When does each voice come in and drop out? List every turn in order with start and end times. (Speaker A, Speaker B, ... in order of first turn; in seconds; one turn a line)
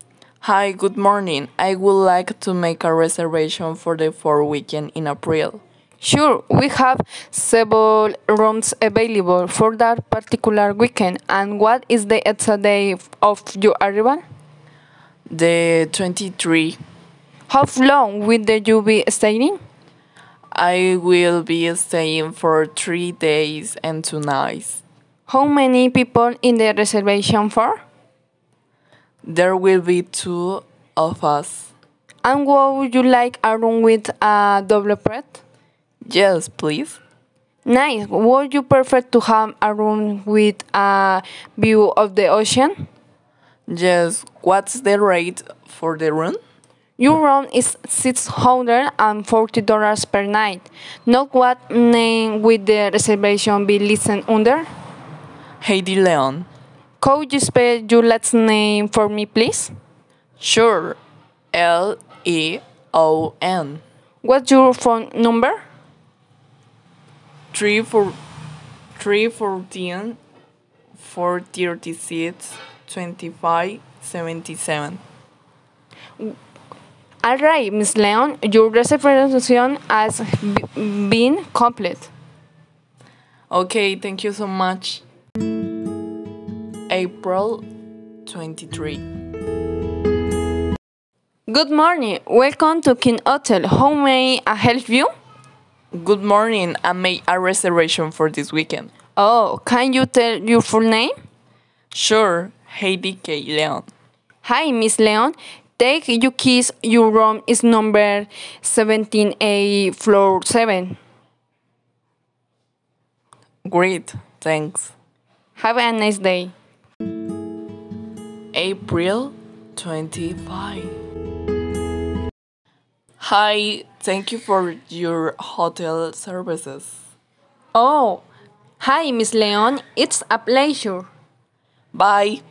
Speaker A: 0.4-5.6
Speaker B: 6.0-14.2
Speaker A: 15.3-16.8
Speaker B: 17.5-19.6
Speaker A: 20.5-24.8
Speaker B: 25.3-27.8
Speaker A: 29.2-31.7
Speaker B: 32.2-35.4
Speaker A: 36.1-37.0
Speaker B: 37.6-42.8
Speaker A: 43.7-46.4
Speaker B: 47.0-54.7
Speaker A: 55.6-56.5
Speaker B: 57.0-59.7
Speaker A: 60.4-61.0
Speaker A: 61.5-63.8
Speaker B: 64.2-65.6
Speaker A: 67.5-68.2
Speaker A: 68.9-70.2
Speaker A: 71.0-75.0
Speaker B: 77.2-82.1
Speaker A: 83.5-85.0
Speaker A: 86.9-87.6
Speaker A: 88.2-89.0
Speaker B: 91.5-95.1
Speaker A: 95.9-98.9
Speaker B: 99.2-101.1
Speaker A: 101.9-103.9
Speaker B: 104.4-111.0
Speaker A: 113.6-114.9
Speaker B: 115.6-116.5
Speaker A: 118.5-120.9
Speaker A: 123.2-127.0
Speaker B: 127.7-128.2
Speaker B: 128.8-131.1
Speaker A: 131.9-132.4